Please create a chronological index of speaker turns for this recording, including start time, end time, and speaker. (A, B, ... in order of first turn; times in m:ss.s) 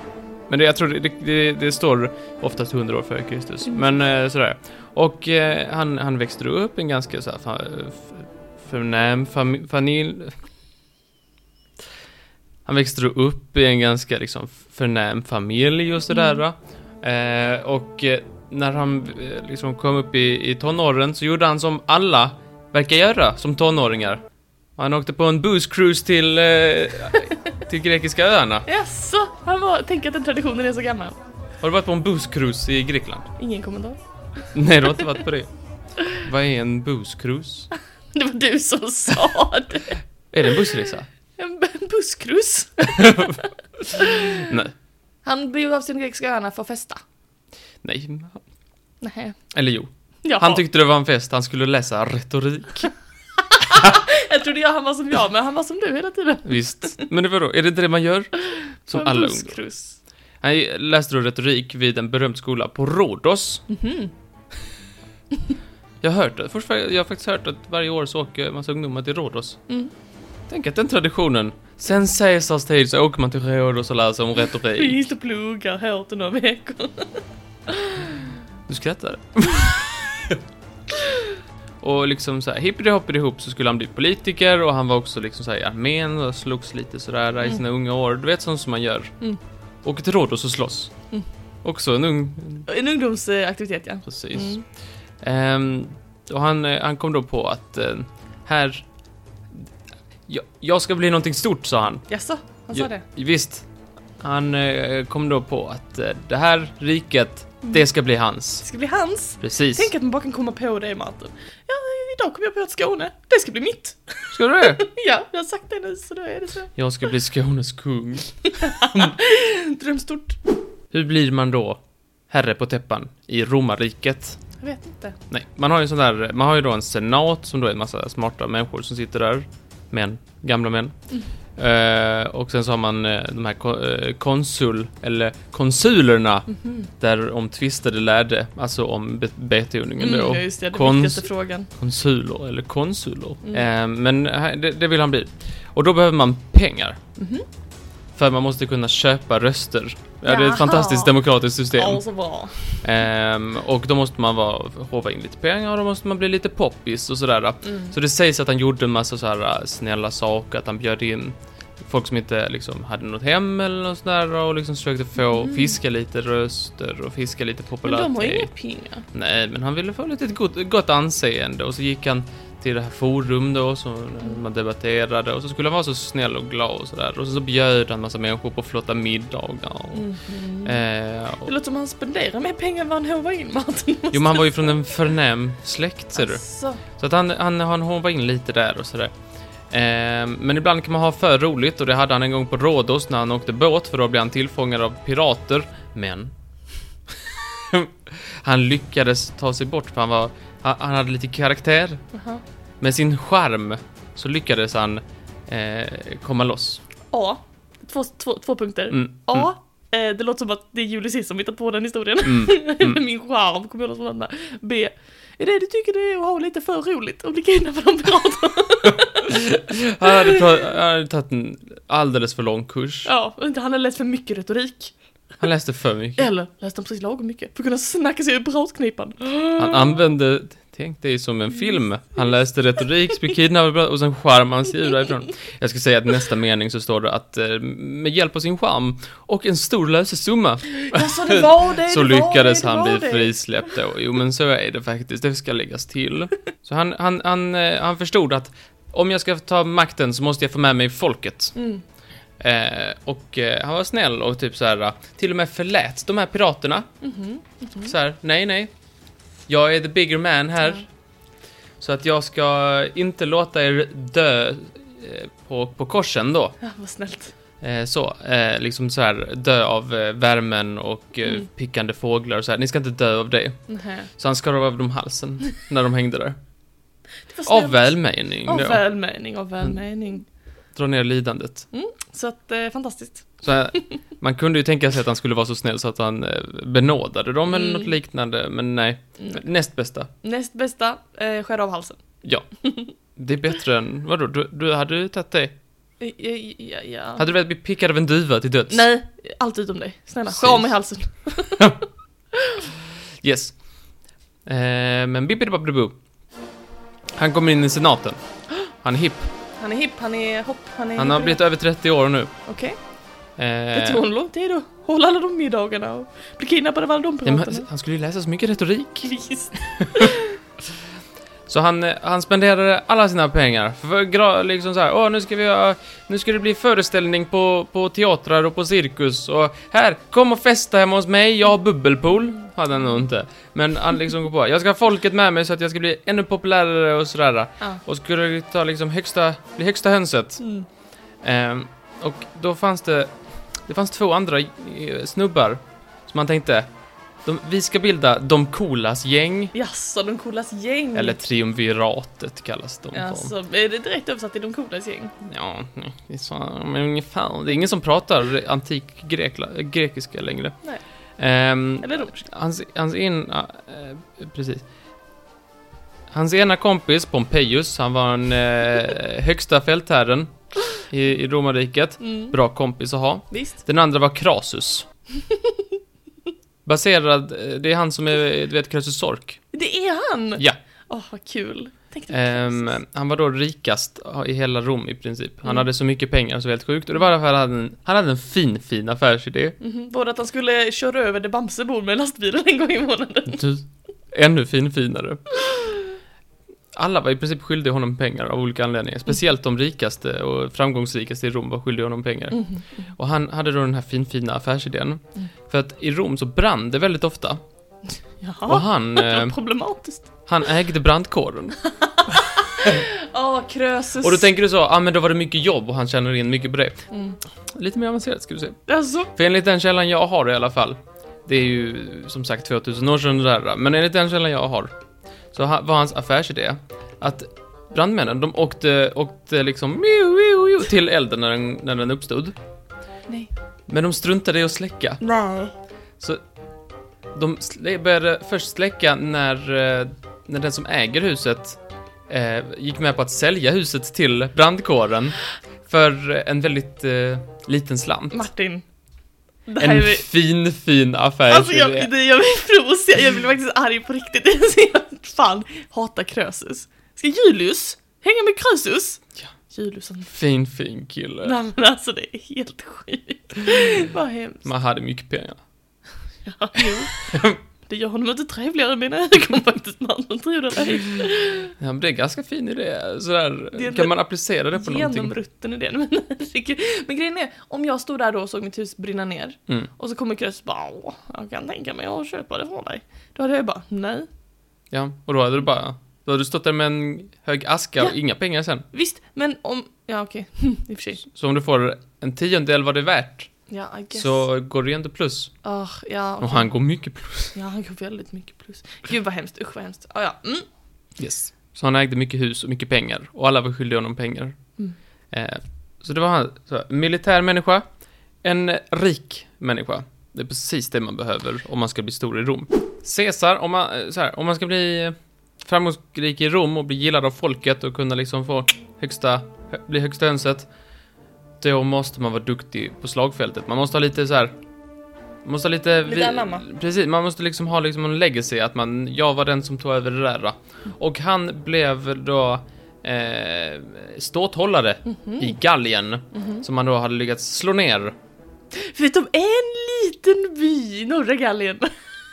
0:00.5-0:10.4 A
0:12.7-0:24.2 A
0:16.1-0:16.4 B
0:24.8-0:28.7 A
0:28.7-0:31.2 B
0:31.6-0:33.3 A
0:33.4-0:34.0 B
0:34.5-0:35.5 A
0:36.1-0:37.7 A
0:38.1-0:44.6 B
0:40.3-0:41.1 A
0:42.9-0:44.7 A
0:45.2-0:47.0 B
0:47.8-0:48.4 A
0:49.0-0:49.4 B
0:49.5-0:52.9 A
0:50.2-0:50.6 B
0:53.5-0:57.0 B
0:53.7-0:54.0 A
0:56.4-0:59.6 A
0:58.4-1:00.0 B
1:00.4-1:03.6 A
1:03.7-1:04.1 B
1:06.0-1:09.6 A
1:10.5-1:15.0 A
1:14.7-1:18.3 B
1:18.7-1:20.4 A
1:21.0-1:21.3 B
1:21.8-1:29.1 A
1:29.8-1:30.9 A
1:31.6-1:32.7 A
1:32.7-1:34.6 B
1:34.1-1:34.6 A
1:35.2-1:38.9 A
1:40.3-1:42.0 A
1:42.1-1:43.0 B
1:42.7-1:43.7 A
1:44.2-1:48.6 A
1:48.6-1:56.7 B
1:49.4-1:49.9 A
1:54.3-1:54.8 A
1:56.8-1:59.2 A
1:58.5-2:00.4 B
2:00.9-2:04.4 A
2:04.6-2:05.2 B
2:05.3-2:11.0 A
2:11.6-2:27.0 A
2:16.5-2:16.9 B
2:20.0-2:21.7 B
2:27.2-2:27.5 B
2:28.2-2:32.0 A
2:30.2-2:31.2 B
2:31.7-2:32.9 B
2:32.8-2:48.5 A
2:37.6-2:38.0 B
2:45.3-2:45.8 B
2:47.8-2:49.0 B
2:49.1-3:00.1 A
2:59.9-3:00.8 B
3:00.6-3:01.5 A
3:01.4-3:04.8 B
3:04.1-3:09.1 A
3:06.2-3:06.8 B
3:09.7-3:16.3 A
3:17.2-3:22.0 A
3:22.1-3:22.4 B
3:22.8-3:26.8 A
3:27.1-3:39.4 B
3:28.9-3:29.5 A
3:32.2-3:33.0 A
3:38.8-3:43.1 A
3:40.0-3:40.4 B
3:43.0-3:45.0 B
3:45.4-3:46.3 A
3:46.2-3:50.0 B
3:49.6-4:11.6 A
4:00.8-4:03.4 B
4:11.6-4:11.8 B
4:12.4-4:16.9 A
4:17.0-4:17.9 B
4:17.8-4:18.7 A
4:19.5-4:20.9 A
4:21.8-4:26.6 A
4:26.6-4:27.3 B
4:27.6-4:33.6 A
4:33.7-4:34.1 B
4:34.2-4:36.4 A
4:37.3-4:40.3 B
4:37.5-4:38.8 A
4:40.8-4:41.7 A
4:41.7-4:43.8 B
4:43.4-4:50.1 A
4:47.5-4:47.9 B
4:50.2-4:52.0 B
4:52.6-4:52.9 B
4:53.2-4:55.6 A
4:56.0-4:57.3 B
4:57.2-4:58.8 A
4:58.7-5:01.7 B
5:00.3-5:00.7 A
5:02.3-5:02.7 B
5:03.2-5:03.6 A
5:04.5-5:06.0 A
5:07.2-5:08.2 A
5:08.8-5:09.3 A
5:09.6-5:11.4 B
5:11.0-5:12.3 A
5:12.5-5:12.8 B
5:13.4-5:14.0 A
5:13.7-5:17.7 B
5:17.2-5:19.1 A
5:19.0-5:20.4 B
5:19.7-5:20.2 A
5:21.5-5:40.4 A
5:40.4-5:40.7 B
5:41.2-5:43.1 A
5:43.7-5:46.7 A
5:47.2-5:49.6 A
5:49.5-5:51.2 B
5:51.0-5:53.3 A
5:52.9-5:55.1 B
5:55.2-6:00.6 A
6:01.2-6:04.7 A
6:01.8-6:02.2 B
6:06.1-6:14.9 A
6:12.0-6:12.4 B
6:15.2-6:15.6 B
6:16.7-6:19.4 A
6:19.5-6:22.8 B
6:22.1-6:29.6 A
6:29.6-6:33.4 B
6:33.3-6:35.4 A
6:35.4-6:35.8 B
6:36.7-6:47.4 A
6:42.3-6:42.8 B
6:48.2-6:50.1 B
6:48.5-6:49.4 A
6:50.3-6:51.6 A
6:51.7-6:54.3 B
6:52.1-6:52.8 A
6:54.0-6:56.9 A
6:56.9-6:57.2 B
6:57.5-6:58.6 A
6:58.7-6:59.1 B
6:59.1-7:04.7 A
7:05.3-7:12.4 A
7:13.7-7:15.0 A
7:15.0-7:15.5 B
7:17.2-7:28.3 A
7:28.1-7:28.6 B
7:29.5-7:30.1 B
7:29.6-7:31.9 A
7:31.3-7:40.1 B
7:40.1-7:41.3 A
7:41.2-7:44.5 B
7:44.4-7:45.4 A
7:46.2-7:51.5 B
7:47.0-7:47.4 A
7:51.6-7:55.1 A
7:53.5-7:53.9 B
7:54.5-8:04.1 B
8:04.7-8:08.6 A
8:08.7-8:11.0 B
8:11.0-8:13.3 A
8:13.5-8:14.2 B
8:13.9-8:15.3 A
8:15.4-8:16.5 B
8:16.2-8:17.4 A
8:17.4-8:20.5 B
8:21.0-8:24.4 A
8:25.1-8:27.6 A
8:28.2-8:40.5 A
8:41.4-8:44.3 A
8:45.2-8:58.0 A
8:45.8-8:46.5 B
8:54.9-8:55.4 B
8:56.1-8:56.4 B
8:58.5-9:01.8 B